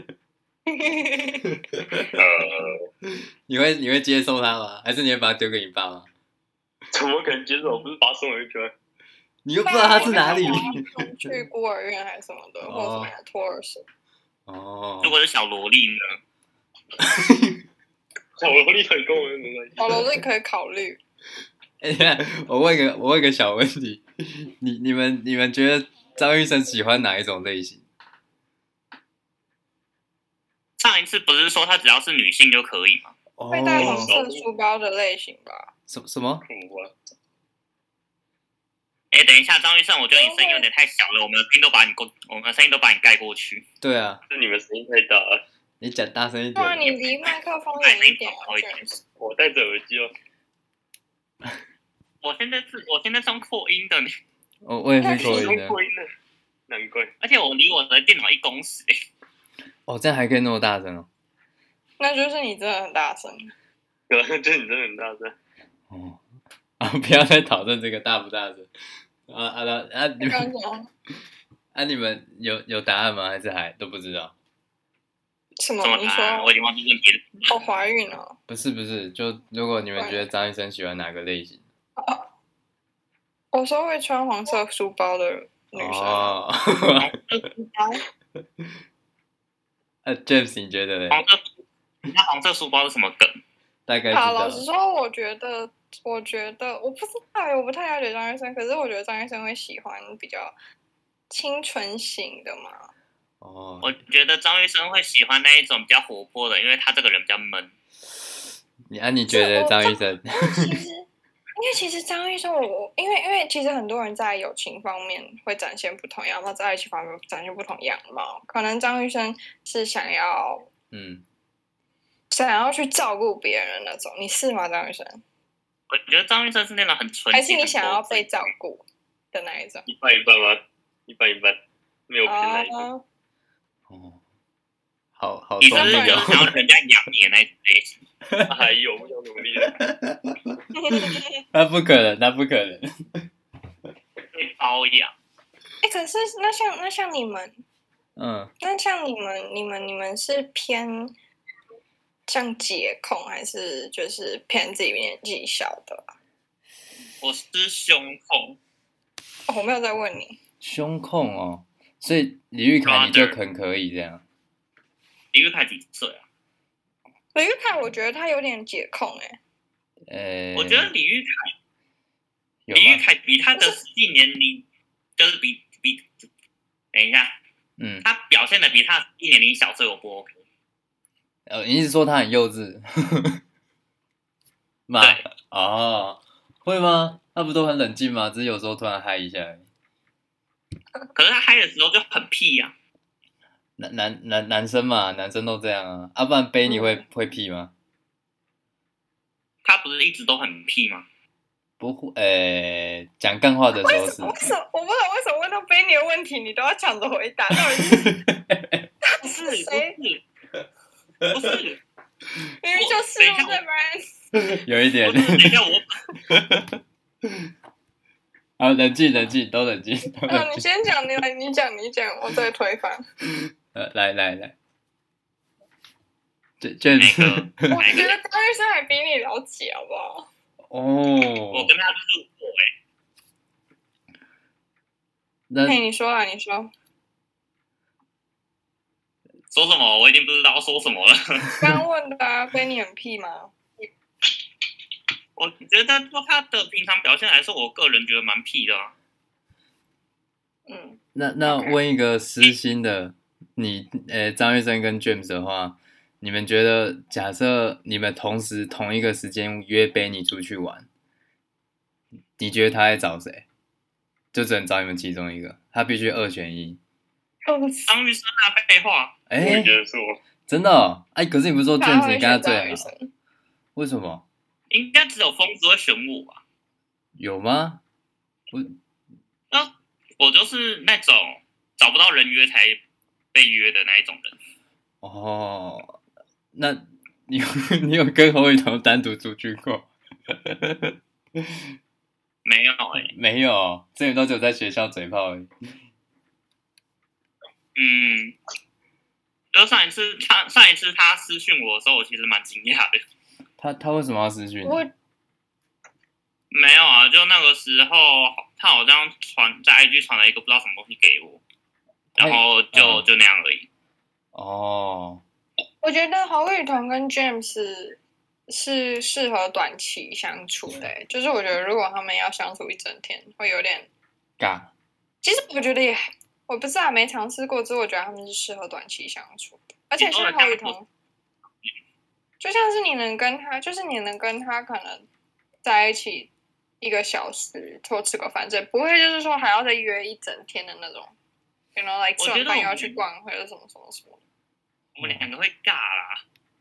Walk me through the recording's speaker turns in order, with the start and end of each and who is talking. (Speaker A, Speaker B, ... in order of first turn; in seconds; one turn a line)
Speaker A: 0.7-1.5
Speaker B: 1.4-2.2
Speaker C: 2.1-2.9
Speaker B: 3.5-6.1
Speaker C: 6.9-8.7
Speaker B: 9.4-11.4
Speaker A: 9.6-13.8
Speaker C: 10.0-10.4
Speaker B: 12.6-13.1
Speaker B: 14.5-15.2
Speaker D: 15.0-16.2
Speaker B: 17.0-17.6
Speaker C: 18.4-20.1
Speaker A: 19.8-21.0
Speaker B: 21.8-27.8
Speaker D: 30.8-33.1
Speaker B: 33.4-34.1
Speaker A: 33.5-35.7
Speaker C: 33.7-34.4
Speaker B: 35.9-36.5
Speaker C: 36.5-36.9
Speaker D: 39.1-43.6
Speaker A: 40.1-40.6
Speaker B: 43.8-44.2
Speaker C: 44.3-45.4
Speaker B: 45.8-47.0
Speaker A: 46.5-48.9
Speaker D: 47.8-49.0
Speaker C: 49.2-50.1
Speaker D: 52.2-54.1
Speaker B: 54.6-55.8
Speaker A: 55.0-55.6
Speaker C: 55.1-56.1
Speaker C: 56.7-57.1
Speaker D: 57.2-58.9
Speaker B: 59.9-61.1
Speaker A: 62.0-63.5
Speaker C: 64.1-65.3
Speaker B: 65.9-66.2
Speaker B: 66.8-68.7
Speaker B: 69.3-70.5
Speaker A: 70.2-70.9
Speaker B: 71.7-74.3
Speaker A: 75.6-76.5
Speaker D: 75.8-77.5
Speaker A: 77.5-78.4
Speaker B: 78.5-81.6
Speaker A: 80.0-80.2
Speaker A: 82.0-82.2
Speaker A: 83.5-86.3
Speaker B: 85.7-87.1
Speaker D: 87.0-88.0
Speaker B: 90.0-91.2
Speaker D: 91.1-93.4
Speaker B: 93.9-94.6
Speaker A: 94.1-100.5
Speaker A: 101.3-102.9
Speaker B: 103.4-103.9
Speaker D: 103.8-107.7
Speaker B: 108.9-110.8
Speaker A: 109.3-120.7
Speaker B: 120.9-121.2
Speaker A: 122.3-125.2
Speaker D: 125.9-128.5
Speaker A: 127.3-129.8
Speaker C: 129.8-131.6
Speaker C: 132.1-132.9
Speaker A: 132.2-133.0
Speaker B: 133.9-134.2
Speaker B: 135.2-136.5
Speaker D: 135.6-138.0
Speaker A: 135.7-136.3
Speaker B: 138.2-138.6
Speaker C: 138.5-139.8
Speaker B: 139.6-143.2
Speaker A: 140.8-141.4
Speaker D: 144.3-145.1
Speaker A: 145.8-147.5
Speaker B: 148.2-148.5
Speaker A: 148.6-151.1
Speaker A: 152.3-156.1
Speaker D: 157.2-158.6
Speaker A: 159.5-160.4
Speaker B: 160.6-164.2
Speaker D: 162.8-163.4
Speaker D: 165.3-166.2
Speaker A: 167.3-169.4
Speaker B: 170.1-170.9
Speaker D: 170.5-171.5
Speaker B: 172.7-173.0
Speaker D: 172.7-174.7
Speaker D: 175.2-176.1
Speaker D: 176.9-177.3
Speaker B: 177.8-178.0
Speaker D: 178.0-180.4
Speaker B: 181.5-183.4
Speaker B: 184.9-189.6
Speaker D: 191.1-192.7
Speaker B: 193.8-197.7
Speaker A: 196.7-197.0
Speaker D: 199.6-201.1
Speaker B: 201.8-204.4
Speaker A: 203.8-208.1
Speaker B: 207.5-208.9
Speaker A: 209.1-210.0
Speaker D: 209.2-210.2
Speaker D: 211.3-211.8
Speaker A: 212.6-214.1
Speaker D: 212.7-213.6
Speaker B: 214.3-215.6
Speaker D: 215.0-216.0
Speaker B: 216.3-217.5
Speaker B: 218.6-220.6
Speaker A: 220.3-223.0
Speaker B: 223.7-224.5
Speaker B: 226.6-228.0
Speaker D: 227.0-228.1
Speaker A: 227.7-230.3
Speaker B: 230.7-231.7
Speaker D: 231.5-232.7
Speaker B: 235.5-235.8
Speaker A: 235.6-236.7
Speaker D: 239.5-241.5
Speaker A: 241.6-243.5
Speaker D: 245.3-248.9
Speaker A: 250.7-251.8
Speaker B: 251.1-260.9
Speaker B: 262.4-263.4
Speaker B: 264.3-266.8
Speaker A: 267.4-267.9
Speaker D: 267.9-269.1
Speaker B: 269.3-269.7
Speaker C: 269.4-270.2
Speaker B: 270.5-272.9
Speaker A: 271.8-273.1
Speaker B: 273.8-274.2
Speaker D: 274.7-276.4
Speaker B: 277.2-277.8
Speaker D: 279.5-282.8
Speaker D: 283.3-284.4
Speaker B: 285.0-286.0
Speaker B: 286.5-291.6
Speaker D: 292.4-293.1
Speaker B: 293.0-295.5
Speaker D: 297.8-298.4
Speaker D: 299.5-303.0
Speaker B: 303.6-304.8
Speaker A: 304.6-304.9
Speaker D: 306.5-311.4
Speaker B: 312.1-313.1
Speaker D: 312.2-313.7
Speaker B: 314.3-315.2
Speaker A: 315.8-323.9
Speaker B: 324.4-324.7
Speaker A: 325.2-330.9
Speaker D: 330.0-330.8
Speaker A: 332.4-335.1
Speaker A: 335.6-341.1
Speaker A: 341.7-344.2
Speaker D: 342.2-343.0
Speaker D: 344.9-346.2